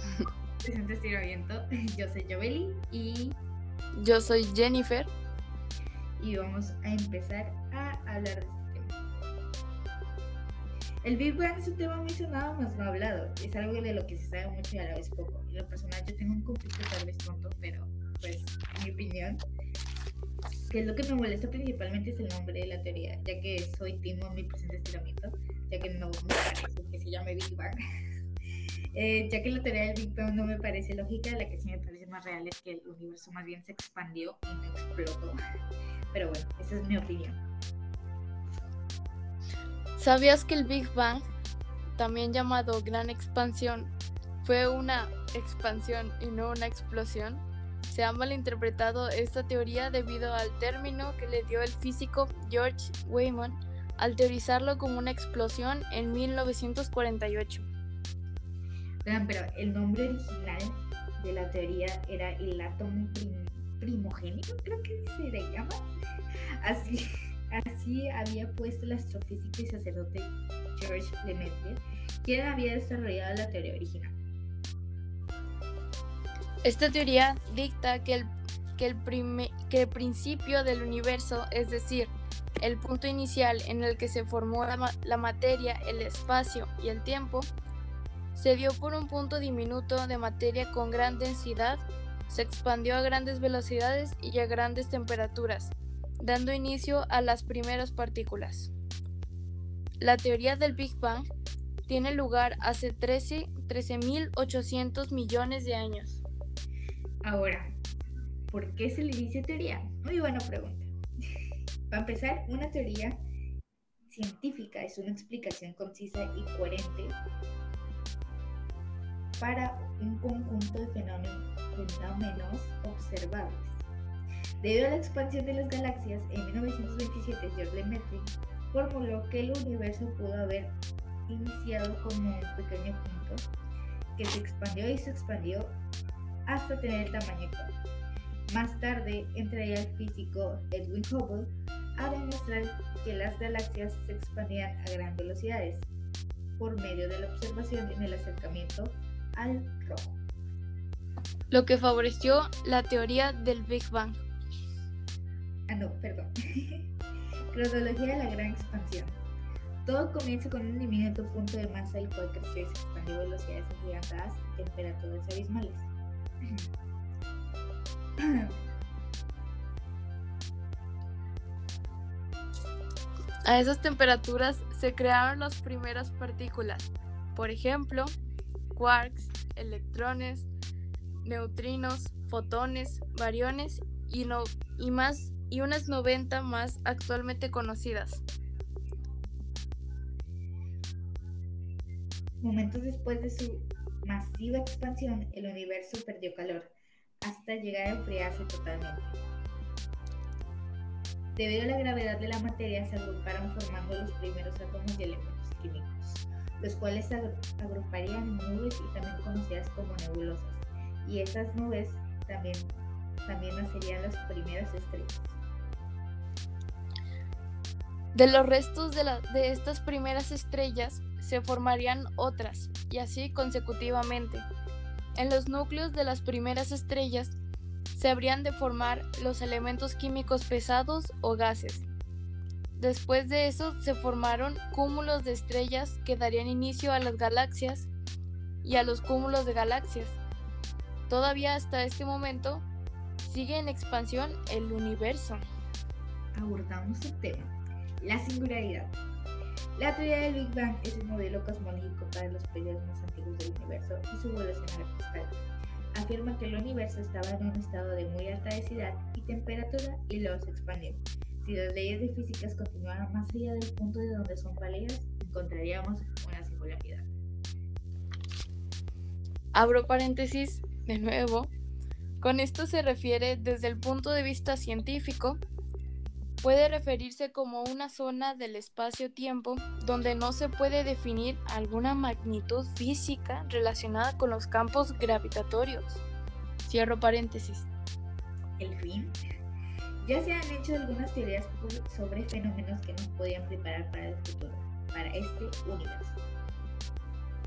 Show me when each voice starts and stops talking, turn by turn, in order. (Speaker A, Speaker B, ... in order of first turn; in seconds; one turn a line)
Speaker A: 0.6-3.4
Speaker B: 4.0-5.1
Speaker A: 6.2-9.0
Speaker A: 11.0-19.4
Speaker A: 20.7-27.8
Speaker A: 28.9-35.4
Speaker A: 36.1-37.4
Speaker B: 40.0-41.2
Speaker B: 42.0-57.7
Speaker A: 59.0-65.8
Speaker A: 66.6-74.2
Speaker B: 76.6-87.5
Speaker B: 88.3-98.7
Speaker B: 100.0-101.3
Speaker B: 101.9-106.2
Speaker A: 107.2-107.8
Speaker A: 108.5-110.9
Speaker A: 111.9-113.2
Speaker A: 114.1-117.2
Speaker A: 119.4-123.8
Speaker A: 124.6-130.8
Speaker A: 131.3-133.5
Speaker A: 134.2-135.8
Speaker A: 136.5-137.7
Speaker A: 138.5-145.9
Speaker A: 146.6-150.2
Speaker B: 151.5-154.3
Speaker A: 155.7-156.9
Speaker A: 157.5-159.2
Speaker A: 159.8-165.9
Speaker B: 173.5-178.1
Speaker B: 178.7-180.5
Speaker B: 181.2-188.2
Speaker A: 192.4-199.2
Speaker A: 201.4-212.7
Speaker A: 213.3-215.4
Speaker B: 218.1-224.5
Speaker B: 225.2-227.4
Speaker B: 227.9-231.8
Speaker B: 232.8-237.9
Speaker B: 238.6-240.2
Speaker B: 241.1-242.7
Speaker B: 243.2-245.4
Speaker A: 246.3-249.0
Speaker A: 249.8-255.4
Speaker A: 255.9-267.1
Speaker B: 269.5-271.5
Speaker B: 272.2-275.4
Speaker B: 276.4-286.0
Speaker B: 286.6-287.7
Speaker A: 288.6-289.2
Speaker A: 290.0-296.2